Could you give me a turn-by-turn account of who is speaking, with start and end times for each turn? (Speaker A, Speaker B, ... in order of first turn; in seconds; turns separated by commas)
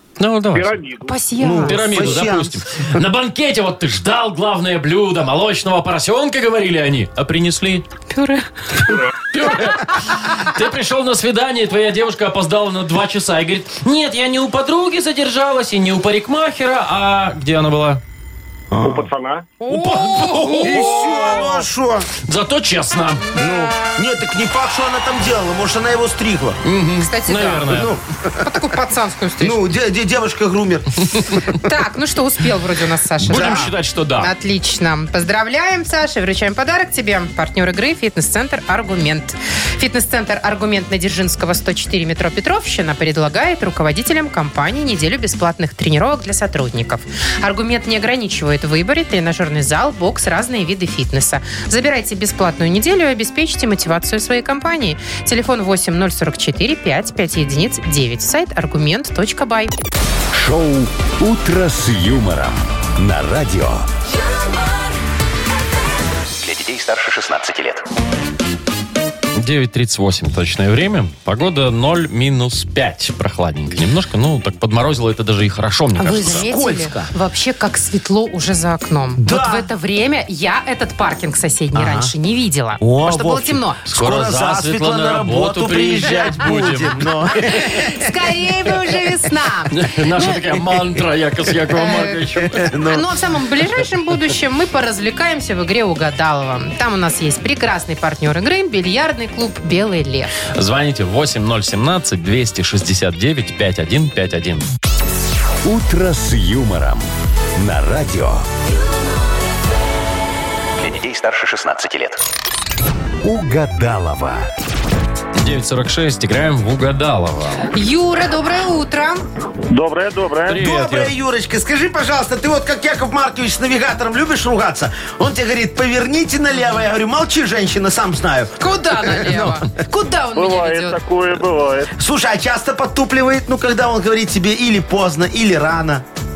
Speaker A: 0.2-0.8, Speaker B: 0.5-1.2, Speaker C: 1.1-2.1, Speaker D: 1.4-2.6, Speaker A: 1.6-7.9, Speaker C: 8.1-8.9, Speaker A: 9.2-18.0, Speaker D: 18.7-19.1, Speaker B: 18.8-19.6, Speaker C: 19.6-21.6, Speaker A: 19.7-21.1, Speaker D: 19.8-22.1, Speaker A: 22.2-23.3, Speaker C: 23.2-24.1, Speaker D: 23.4-26.6, Speaker A: 26.6-27.9, Speaker C: 27.0-27.9, Speaker D: 27.7-28.6, Speaker C: 28.4-29.6, Speaker D: 29.4-31.6, Speaker C: 31.5-59.7, Speaker D: 33.2-33.7, Speaker A: 33.3-34.3, Speaker E: 60.3-63.9, Speaker F: 66.4-67.8, Speaker A: 69.4-76.5, Speaker C: 76.0-83.8, Speaker D: 76.1-77.1, Speaker D: 79.2-79.7, Speaker D: 81.8-82.1, Speaker D: 82.8-88.1, Speaker A: 83.9-87.1, Speaker C: 87.4-90.5, Speaker A: 89.7-92.7, Speaker C: 91.8-92.2, Speaker D: 91.8-93.1, Speaker C: 92.9-100.3, Speaker A: 100.5-104.7, Speaker E: 105.6-108.5, Speaker F: 110.8-112.2, Speaker E: 113.2-114.5, Speaker A: 115.4-117.7, Speaker C: 117.7-119.2, Speaker B: 119.7-120.6, Speaker A: 120.5-121.1, Speaker D: 120.6-129.7, Speaker C: 128.6-131.0, Speaker B: 130.4-131.9, Speaker D: 132.0-136.1